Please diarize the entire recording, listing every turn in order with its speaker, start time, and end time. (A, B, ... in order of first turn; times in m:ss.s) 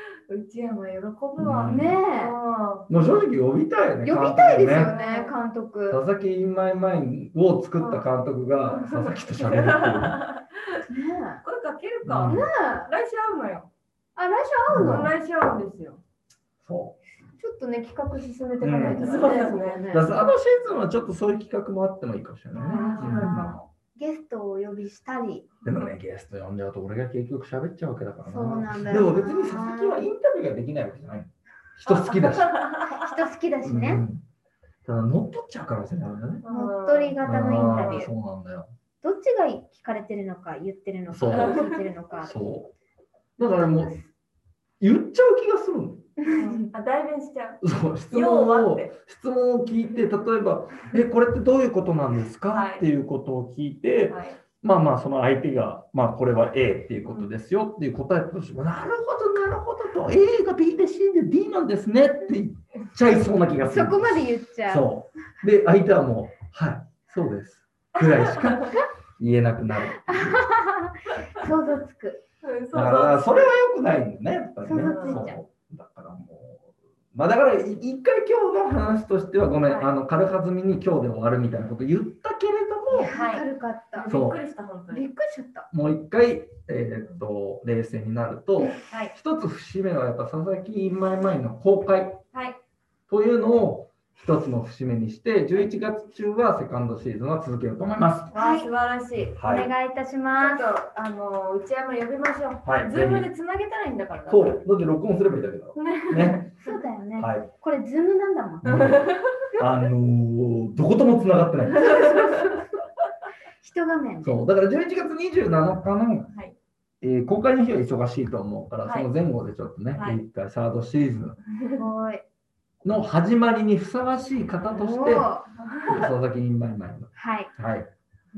0:00.3-0:02.9 A
0:01.4-0:02.0 B
0:01.7-0:02.3 C
0:02.9-0:04.9 B
0:04.0-0:06.0 C
0:04.7-0:05.4 A
0:05.9-0:10.2 B
0:07.8-0:08.0 A
0:08.7-0:10.8 A
0:10.9-0:11.4 C
0:11.4-0:13.7 A
0:12.0-0:12.4 B
0:12.2-0:12.9 C
0:14.2-0:15.1 C
0:14.7-0:15.1 B
0:14.8-0:16.0 A
0:16.6-0:17.0 B
0:17.4-0:20.2 C
0:18.6-0:19.1 B
0:18.8-0:20.1 A
0:19.9-0:23.6 B
0:22.5-0:23.6 A
0:22.7-0:25.5 C
0:25.6-0:32.6 B
0:28.2-0:30.0 C
0:31.8-0:33.1 A
0:32.8-0:34.0 C
0:33.6-0:34.2 B
0:34.8-0:36.4 B
0:36.4-0:38.1 A
0:36.5-0:38.1 C
0:37.2-0:38.7 B
0:39.0-0:42.4 C
0:41.1-0:41.6 B
0:41.3-0:41.8 A
0:42.2-0:42.7 B
0:43.4-0:43.9 B
0:43.4-0:44.1 C
0:44.8-0:46.1 B
0:46.2-0:46.5 C
0:46.3-0:48.9 A
0:47.6-1:10.4 B
0:52.5-0:52.8 A
0:54.1-0:54.4 A
1:03.5-1:04.9 C
1:08.0-1:08.7 A
1:10.1-1:12.2 C
1:12.4-1:13.5 A
1:12.7-1:23.1 B
1:14.6-1:15.4 C
1:14.8-1:15.3 A
1:19.6-1:19.9 A
1:22.9-1:24.2 C
1:23.1-1:25.1 A
1:24.1-1:24.4 B
1:24.9-1:25.7 C
1:25.7-1:32.2 B
1:28.9-1:29.1 A
1:32.3-1:32.6 A
1:33.1-1:38.3 B
1:38.3-1:38.7 C
1:38.3-1:39.4 A
1:39.3-1:39.7 B
1:39.4-1:40.7 C
1:40.3-1:44.6 A
1:42.6-1:43.3 B
1:44.3-1:46.5 B
1:45.7-1:46.8 A
1:46.6-1:48.6 C
1:47.2-1:47.5 B
1:48.6-1:52.3 B
1:48.6-1:49.3 A
1:51.8-1:52.6 C
1:51.9-1:52.5 A
1:53.6-1:54.4 C
1:54.2-1:56.3 B
1:57.0-2:01.4 B
1:59.9-2:00.2 A
2:01.7-2:02.2 C
2:02.8-2:05.3 B
2:04.7-2:05.5 C
2:05.6-2:06.1 A
2:05.9-2:07.9 B
2:07.2-2:07.5 C